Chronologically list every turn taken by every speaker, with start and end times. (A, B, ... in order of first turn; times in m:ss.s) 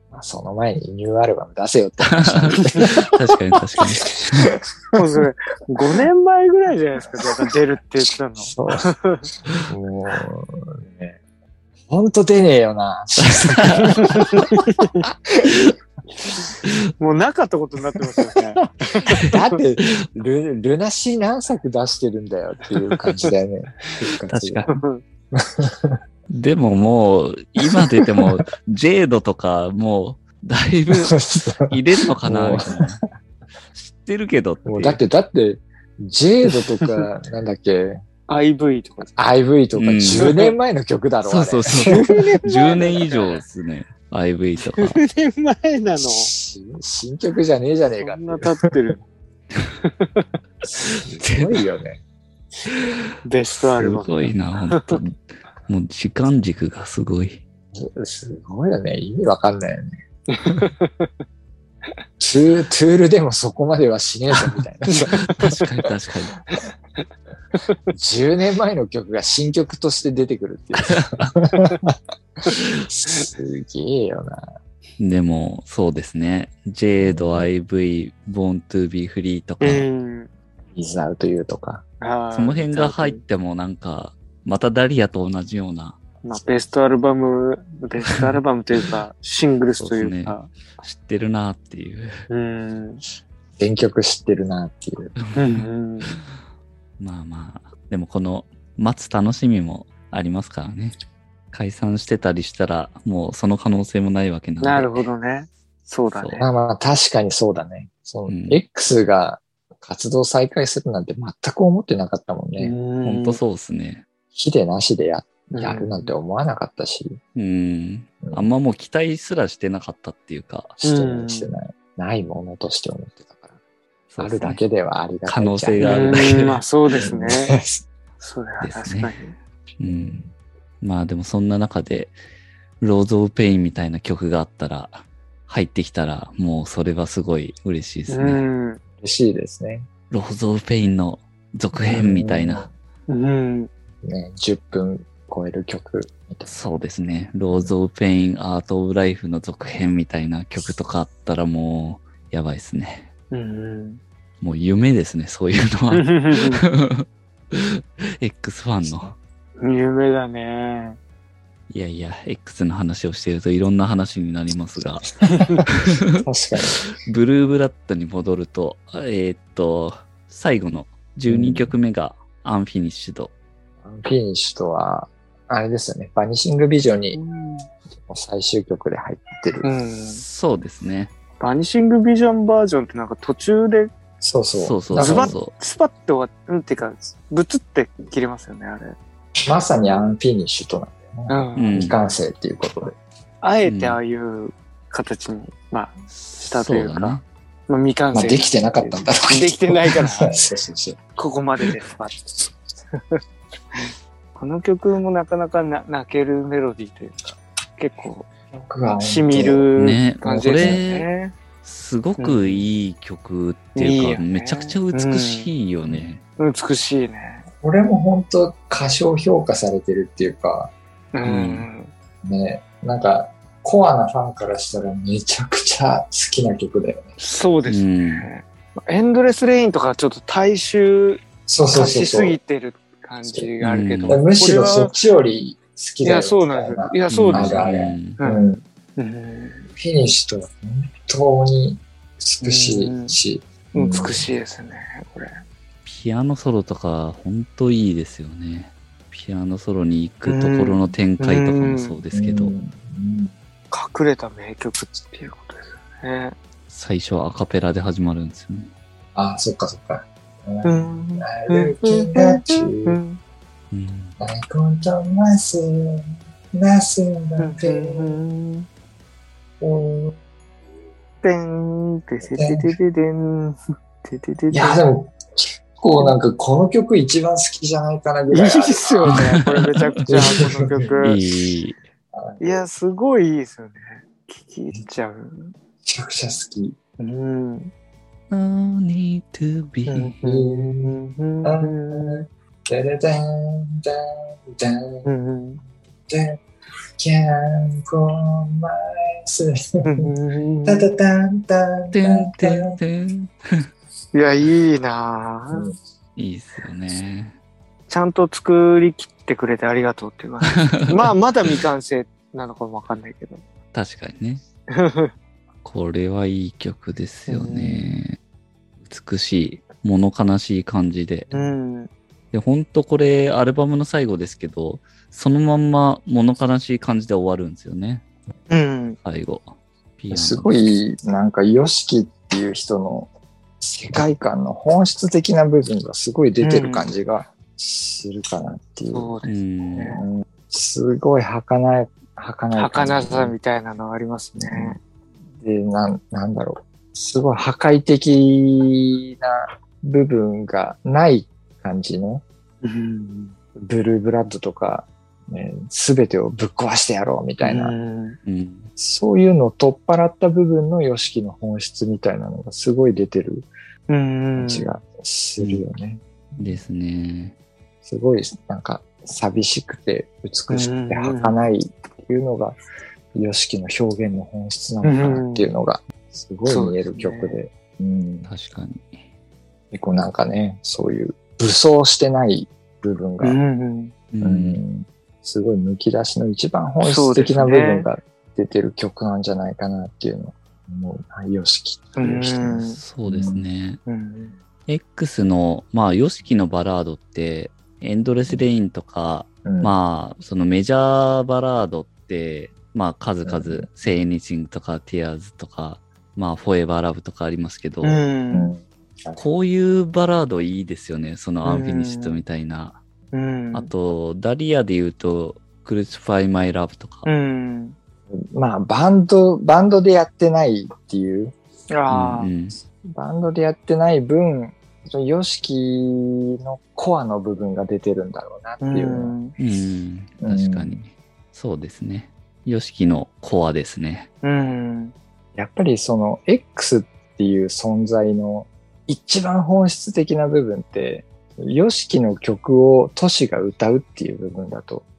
0:00.1-0:03.1 A
0:02.1-0:04.5 B
0:04.5-0:05.2 A
0:05.0-0:09.3 C
0:07.2-0:07.5 A
0:08.4-0:08.9 A
0:09.7-0:11.2 A
0:11.9-0:15.7 A
0:13.2-0:14.2 B
0:14.1-0:15.1 C
0:16.2-0:19.6 C
0:19.0-0:24.7 A
0:19.8-0:20.1 B
0:22.9-0:23.3 C
0:24.3-0:24.7 B
0:24.7-0:25.0 C
0:25.3-0:26.0 A
0:26.3-0:33.0 B
0:30.9-0:32.8 A
0:33.7-0:35.0 B
0:34.6-0:38.0 A
0:38.3-0:39.1 C
0:39.2-0:42.4 A
0:39.8-0:40.3 B
0:40.1-0:40.6 C
0:41.2-0:45.0 B
0:41.8-0:43.4 C
0:44.6-0:46.3 C
0:46.0-0:49.0 A
0:48.0-0:49.0 C
0:49.8-0:50.3 C
0:50.7-0:52.0 A
0:50.8-0:51.6 B
0:52.7-0:53.0 B
0:53.2-0:55.0 C
0:53.6-0:57.4 B
0:57.7-1:00.0 A
1:00.3-1:01.1 C
1:02.2-1:05.3 A
1:04.9-1:05.5 C
1:05.3-1:06.4 B
1:07.9-1:14.5 A
1:10.8-1:11.3 B
1:12.5-1:12.9 B
1:15.0-1:19.9 B
1:17.0-1:17.5 A
1:19.6-1:20.3 C
1:20.7-1:21.8 A
1:22.0-1:23.2 C
1:22.3-1:26.0 B
1:26.2-1:30.5 C
1:29.8-1:32.2 B
1:32.3-1:33.0 C
1:33.6-1:35.2 A
1:35.3-1:35.7 B
1:35.4-1:36.2 C
1:37.0-1:41.0 B
1:41.5-1:45.1 B
1:44.6-1:46.5 C
1:46.2-1:46.4 B
1:46.4-1:52.8 A
1:48.3-1:48.6 B
1:52.6-1:53.4 C
1:53.0-1:54.0 B
1:54.3-1:57.2 A
1:55.5-1:56.1 C
1:57.4-2:00.8 B
2:00.8-2:01.5 C
2:00.8-2:03.6 A
2:04.1-2:04.6 B
2:04.2-2:06.4 A
2:05.3-2:07.1 B
2:05.8-2:07.6 C
2:07.0-2:07.8 A
2:08.2-2:09.3 C
2:08.6-2:09.2 B
2:09.8-2:10.2 B
2:09.8-2:10.3 A
2:10.8-2:12.2 B
2:12.8-2:18.4 B
2:18.1-2:18.8 C
2:19.0-2:19.9 A
2:20.1-2:22.7 B
2:21.8-2:22.7 A
2:23.1-2:23.7 C
2:24.0-2:26.5 A
2:26.4-2:33.1 B
2:33.3-2:34.0 C
2:34.4-2:39.2 B
2:35.9-2:36.6 C
2:38.8-2:39.1 A
2:39.6-2:41.0 C
2:41.7-2:46.2 B
2:45.4-2:46.9 A
2:47.0-2:53.3 B
2:51.3-2:51.8 A
2:53.8-2:57.2 A
2:57.1-2:57.7 C
2:57.9-2:59.7 A
2:59.6-3:00.2 C
3:00.1-3:01.1 B
3:01.4-3:03.9 C
3:04.2-3:05.4 A
3:04.6-3:05.5 B
3:05.0-3:09.0 C
3:09.4-3:13.0 A
3:11.3-3:11.8 C
3:11.6-3:12.0 B
3:13.4-3:20.4 C
3:13.6-3:14.0 B
3:16.1-3:17.2 B
3:18.1-3:21.0 A
3:21.2-3:22.4 C
3:23.0-3:23.2 C
3:23.7-3:28.3 C
3:28.5-3:29.6 A
3:29.0-3:31.4 C
3:29.8-3:31.1 B
3:31.6-3:36.2 B
3:32.2-3:32.7 C
3:33.8-3:35.5 C
3:36.4-3:37.5 C
3:37.6-3:40.7 A
3:41.1-3:41.9 C
3:41.2-3:41.7 B
3:42.2-3:47.1 A
3:47.2-3:55.0 C
3:47.6-3:48.3 B
3:51.5-3:52.4 A
3:53.3-3:53.5 A
3:53.6-3:54.2 B
3:54.1-3:58.6 A
3:56.0-3:59.7 C
3:57.1-3:58.2 B
3:59.8-4:04.3 A
4:02.4-4:03.2 C
4:03.7-4:05.4 C
4:05.8-4:12.6 B
4:10.2-4:12.0 C
4:12.1-4:13.3 A
4:13.7-4:16.4 C
4:16.7-4:18.7 B
4:19.2-4:23.0 A
4:20.6-4:23.2 C
4:23.7-4:24.2 B
4:24.2-4:28.2 A
4:27.4-4:28.7 C
4:29.6-4:30.2 A
4:31.2-4:34.8 C
4:32.2-4:32.8 A
4:34.5-4:39.3 A
4:38.3-4:41.2 C
4:39.1-4:39.7 B
4:40.1-4:40.9 A
4:41.0-4:41.8 B
4:42.1-4:42.6 A
4:42.4-4:45.5 C
4:45.8-4:46.8 A
4:47.0-4:47.7 C
4:48.3-4:50.1 B
4:49.9-4:52.2 C
4:50.2-4:55.1 A
4:55.0-4:55.6 C
4:56.1-4:56.4 A
4:57.0-5:00.1 A
4:59.8-5:00.9 C
5:00.6-5:02.8 A
5:01.9-5:03.7 B
5:04.1-5:05.7 C
5:06.2-5:07.4 B
5:07.9-5:13.4 C
5:10.5-5:11.6 B
5:13.7-5:14.4 B
5:14.7-5:15.1 C
5:15.6-5:18.2 B
5:17.3-5:18.0 C
5:18.8-5:21.3 B
5:21.3-5:21.9 C
5:22.3-5:28.0 B
5:28.5-5:29.0 C
5:29.0-5:30.6 B
5:30.1-5:33.1 A
5:33.6-5:39.1 A
5:36.4-5:36.9 C
5:38.9-5:40.0 C
5:39.2-5:40.0 B
5:40.0-5:43.4 A
5:42.6-5:44.8 C
5:44.4-5:44.8 A
5:45.4-5:52.2 A
5:52.6-5:53.4 C
5:53.6-5:57.8 A
5:57.4-5:58.2 C
5:58.2-5:58.7 B
5:58.8-6:03.5 A
6:03.9-6:04.8 C
6:04.4-6:06.5 A
6:06.4-6:07.4 B
6:07.8-6:12.6 A
6:10.5-6:11.4 C
6:13.1-6:18.3 A
6:14.8-6:15.5 C
6:16.5-6:17.4 C
6:18.3-6:19.0 B
6:19.7-6:23.4 A
6:23.2-6:24.0 C
6:24.1-6:24.6 B
6:24.2-6:33.5 A
6:26.8-6:27.9 C
6:32.0-6:32.8 C
6:32.8-6:33.8 B
6:33.9-6:34.4 C
6:34.7-6:48.0 B
6:39.4-6:39.8 A
6:43.2-6:43.7 A
6:47.8-6:48.5 C
6:48.3-6:49.2 A
6:49.2-6:52.8 B
6:51.4-6:52.2 C
6:53.1-6:53.7 C
6:53.5-6:57.1 B
6:57.0-6:57.8 C
6:58.1-7:01.4 A
7:01.7-7:02.3 C
7:01.9-7:02.6 B
7:02.8-7:09.2 A
7:08.6-7:09.3 C
7:09.4-7:14.1 B
7:10.2-7:10.8 A
7:14.2-7:15.0 C
7:15.4-7:24.9 A